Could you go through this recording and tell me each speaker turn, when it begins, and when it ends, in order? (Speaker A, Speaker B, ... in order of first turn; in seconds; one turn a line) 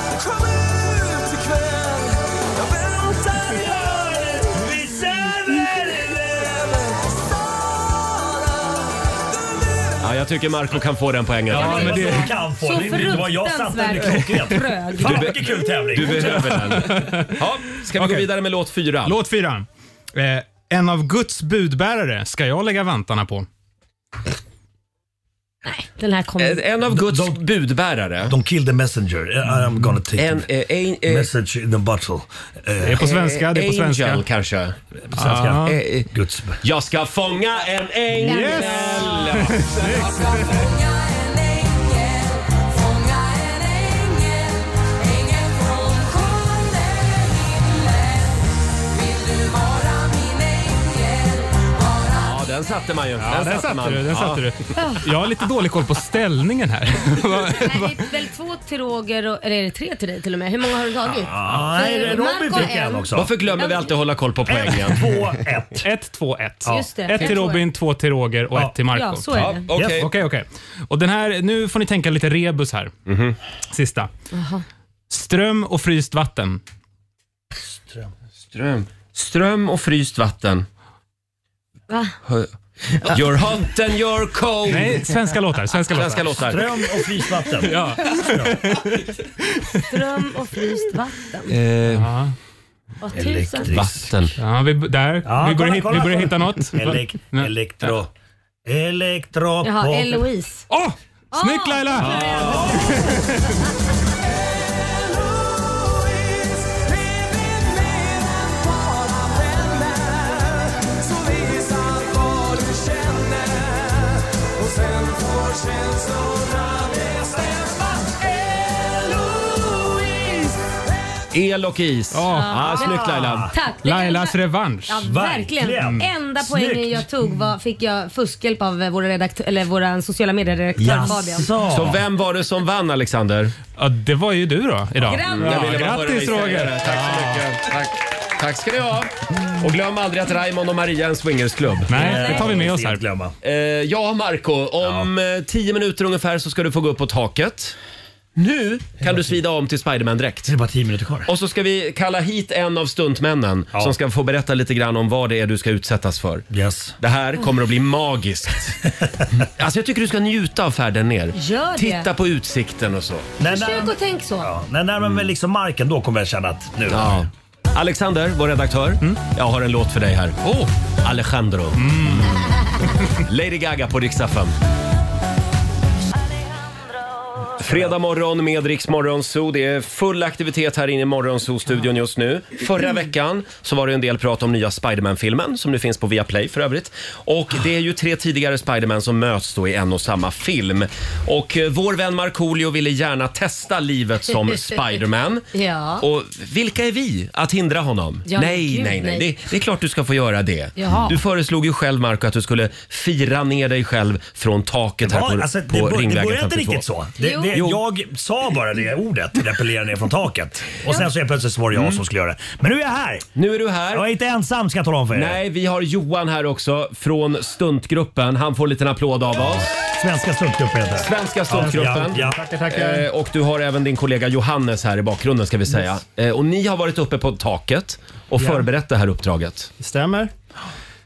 Speaker A: 3.4-7.0
Speaker B: 10.0-12.3
Speaker C: 11.5-12.3
Speaker D: 11.5-15.3
Speaker A: 11.5-16.7
Speaker B: 15.0-19.2
Speaker C: 16.5-18.3
Speaker C: 19.0-23.5
Speaker D: 25.6-26.6
Speaker B: 26.4-28.4
Speaker A: 26.9-27.4
Speaker A: 28.3-30.4
Speaker B: 30.2-31.3
Speaker A: 31.1-33.0
Speaker C: 32.8-34.2
Speaker B: 33.0-34.8
Speaker A: 35.1-36.6
Speaker C: 35.1-35.8
Speaker B: 35.6-36.1
Speaker B: 36.6-39.7
Speaker C: 38.2-40.6
Speaker D: 38.2-39.2
Speaker B: 52.2-54.5
Speaker C: 53.2-58.0
Speaker D: 54.8-55.0
Speaker D: 57.6-63.9
Speaker A: 61.2-63.3
Speaker B: 63.1-65.1
Speaker A: 64.5-65.9
Speaker C: 65.8-72.9
Speaker A: 66.7-67.3
Speaker D: 66.7-67.7
Speaker D: 68.9-69.7
Speaker B: 69.3-70.1
Speaker A: 69.7-70.0
Speaker B: 73.1-73.4
Speaker C: 73.7-74.1
Speaker D: 74.3-74.6
Speaker C: 75.1-76.6
Speaker A: 77.8-78.1
Speaker B: 78.5-80.7
Speaker D: 81.9-82.2
Speaker B: 83.0-85.1
Speaker C: 84.7-86.5
Speaker B: 85.9-86.7
Speaker A: 86.5-88.6
Speaker C: 87.6-89.0
Speaker C: 89.5-89.9
Speaker D: 89.9-91.5
Speaker B: 91.5-92.1
Speaker C: 91.9-92.3
Speaker D: 93.0-93.7
Speaker A: 93.1-94.1
Speaker B: 93.7-94.3
Speaker C: 94.4-97.9
Speaker A: 95.2-98.1
Speaker A: 98.7-100.2
Speaker D: 99.6-100.7
Speaker C: 100.7-103.7
Speaker D: 101.3-103.2
Speaker B: 102.0-102.6
Speaker E: 105.0-114.0
Speaker E: 114.6-118.3
Speaker B: 121.3-123.5
Speaker C: 122.1-122.8
Speaker D: 122.3-131.5
Speaker A: 122.9-123.5
Speaker C: 123.8-125.0
Speaker A: 125.0-127.1
Speaker A: 130.8-132.0
Speaker B: 131.7-133.5
Speaker C: 133.8-137.4
Speaker D: 135.0-135.8
Speaker B: 135.2-142.3
Speaker C: 141.9-143.0
Speaker A: 141.9-143.3
Speaker D: 141.9-142.6
Speaker B: 143.4-147.8
Speaker A: 144.8-145.1
Speaker B: 148.4-150.5
Speaker A: 150.5-151.3
Speaker B: 151.3-156.5
Speaker A: 156.5-157.0
Speaker B: 157.0-158.8
Speaker B: 159.4-163.3
Speaker D: 161.3-162.1
Speaker A: 163.4-167.2
Speaker D: 163.4-164.5
Speaker B: 165.0-165.3
Speaker B: 166.9-170.5
Speaker C: 170.4-170.7
Speaker B: 171.0-172.3
Speaker C: 171.8-172.4
Speaker B: 173.3-174.6
Speaker B: 177.6-195.4
Speaker D: 195.5-196.0
Speaker B: 196.0-206.8
Speaker D: 198.3-199.3
Speaker D: 200.8-201.2
Speaker A: 205.1-213.3
Speaker D: 207.2-207.6
Speaker B: 207.5-207.8
Speaker B: 211.7-212.0
Speaker B: 213.4-214.1
Speaker A: 213.9-215.4
Speaker B: 215.1-219.7
Speaker A: 219.5-222.4
Speaker B: 221.0-229.7
Speaker F: 221.6-223.1
Speaker F: 229.8-230.3